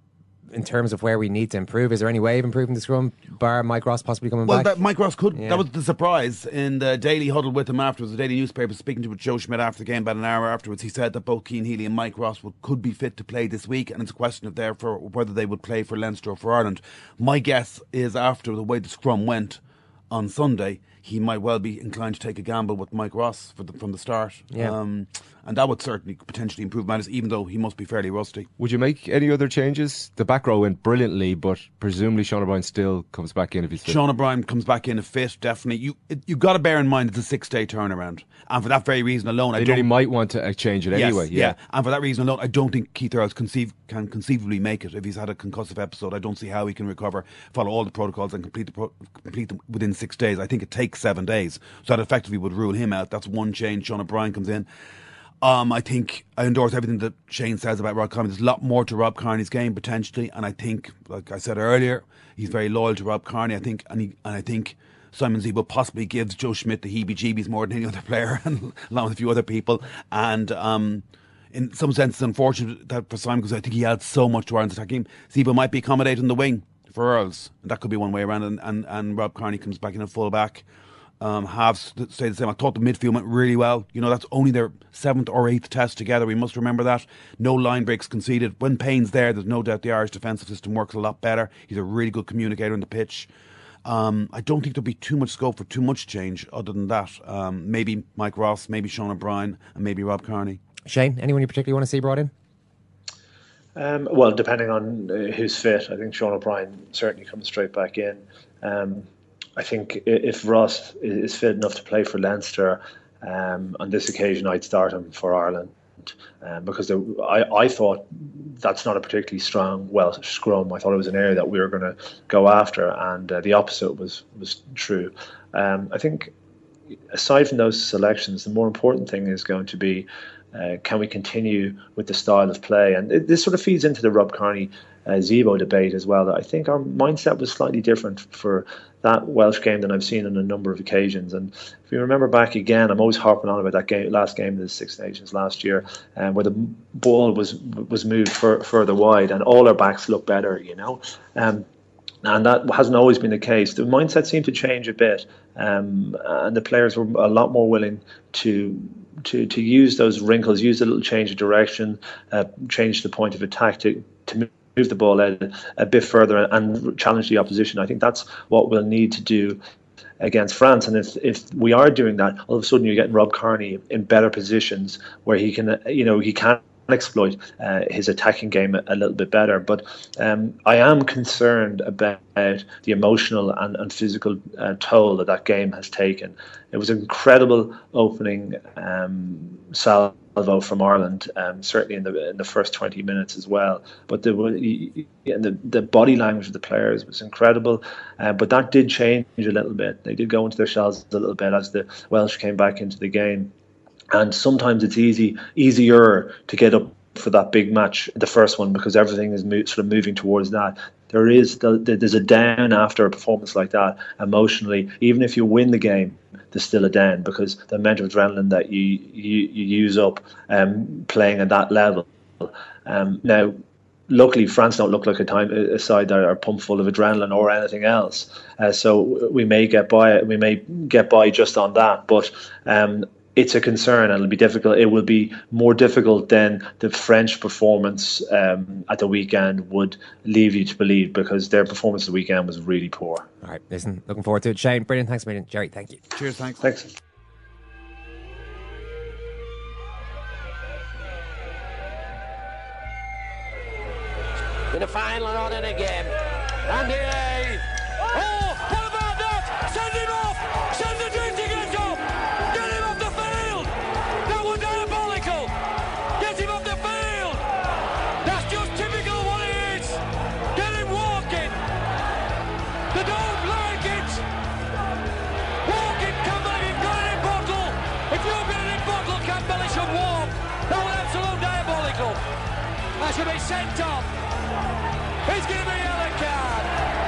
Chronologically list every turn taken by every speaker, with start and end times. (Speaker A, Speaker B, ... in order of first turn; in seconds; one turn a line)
Speaker A: 0.5-4.7
Speaker B: 4.5-28.5
Speaker A: 5.3-5.7
Speaker C: 28.6-34.0
Speaker B: 33.8-39.9
Speaker C: 39.6-41.6
Speaker B: 40.9-54.7
Speaker B: 55.4-80.7
Speaker B: 81.2-93.3
Speaker B: 93.8-100.6
Speaker A: 100.9-102.3
Speaker D: 103.8-126.3
Speaker D: 127.1-151.7
Speaker D: 152.2-169.6
Speaker D: 170.2-203.5
Speaker D: 204.1-243.3
Speaker A: 243.4-246.0
Speaker B: 246.2-246.6
Speaker D: 246.6-246.9
Speaker E: 254.7-256.1
Speaker E: 256.7-257.6
Speaker E: 273.7-274.1
Speaker E: 275.8-282.2
Speaker E: 283.0-284.0
Speaker E: 285.3-286.7